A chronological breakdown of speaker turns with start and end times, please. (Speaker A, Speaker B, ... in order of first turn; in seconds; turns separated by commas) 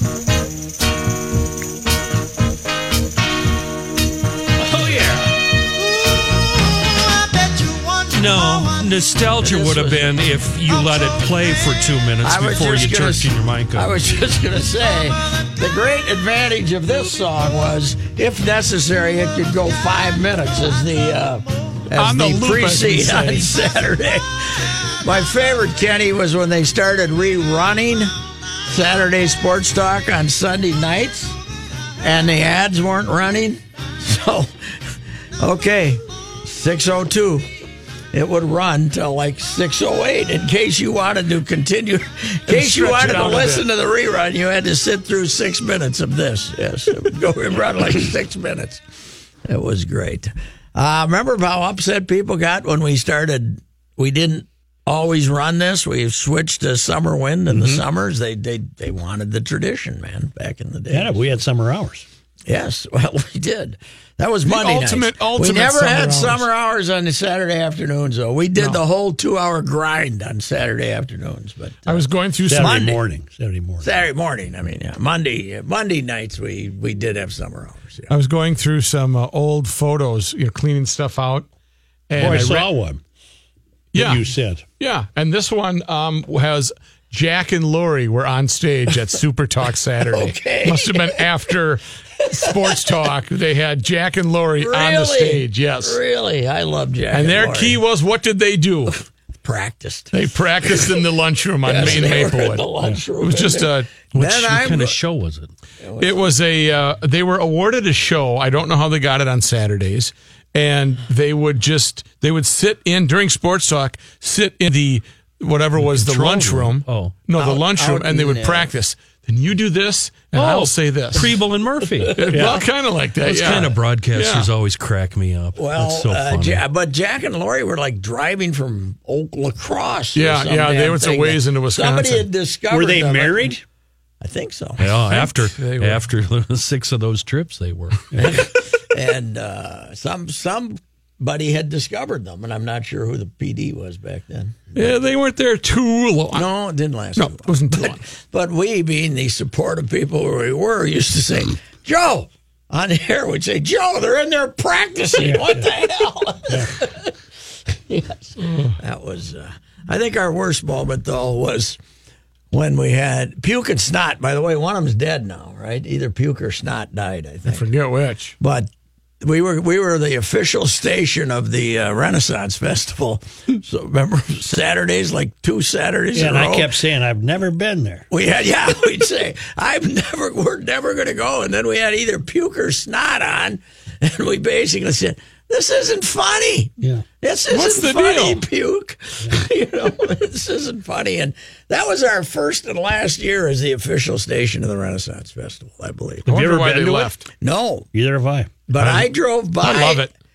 Speaker A: 8.1-13.9, Speaker B: 9.4-10.2, Speaker B: 12.2-28.1, Speaker C: 21.9-23.5, Speaker B: 28.7-31.4, Speaker B: 32.0-34.5, Speaker B: 35.4-37.5, Speaker B: 38.1-48.8, Speaker C: 42.5-43.6, Speaker B: 49.5-61.2, Speaker D: 57.5-57.8, Speaker D: 60.9-62.0, Speaker B: 62.5-73.0, Speaker C: 64.4-66.4, Speaker C: 71.8-72.8, Speaker D: 72.5-73.9, Speaker B: 73.8-78.1, Speaker C: 78.1-81.5, Speaker C: 82.1-82.7, Speaker D: 82.2-83.0, Speaker C: 83.9-84.2, Speaker D: 83.9-84.6, Speaker C: 84.8-96.0, Speaker B: 90.1-91.2, Speaker B: 94.6-97.8, Speaker C: 97.1-99.0, Speaker B: 99.4-100.9, Speaker C: 100.1-104.1, Speaker B: 101.6-105.0, Speaker A: 104.1-105.5, Speaker B: 105.8-106.3, Speaker C: 106.0-121.3, Speaker A: 115.8-117.2, Speaker B: 117.3-118.7, Speaker A: 120.3-122.5, Speaker C: 122.1-124.5, Speaker D: 122.3-122.6, Speaker A: 123.2-126.6, Speaker B: 125.5-133.5, Speaker C: 130.1-132.3, Speaker D: 132.7-133.6, Speaker B: 134.2-134.9, Speaker A: 134.8-138.2, Speaker C: 135.1-136.0, Speaker B: 138.2-144.9, Speaker C: 144.7-146.5, Speaker B: 146.3-157.1, Speaker C: 147.2-148.0, Speaker D: 155.2-155.6, Speaker B: 157.9-161.8, Speaker C: 158.4-158.7, Speaker B: 162.5-167.7, Speaker C: 167.5-168.3, Speaker B: 168.4-168.7, Speaker B: 169.2-176.7, Speaker D: 176.1-178.1, Speaker B: 178.1-196.3, Speaker C: 187.5-188.4, Speaker C: 196.2-197.2, Speaker D: 196.3-197.1, Speaker B: 197.4-197.9, Speaker D: 197.9-198.5, Speaker B: 198.7-200.1, Speaker C: 198.8-200.1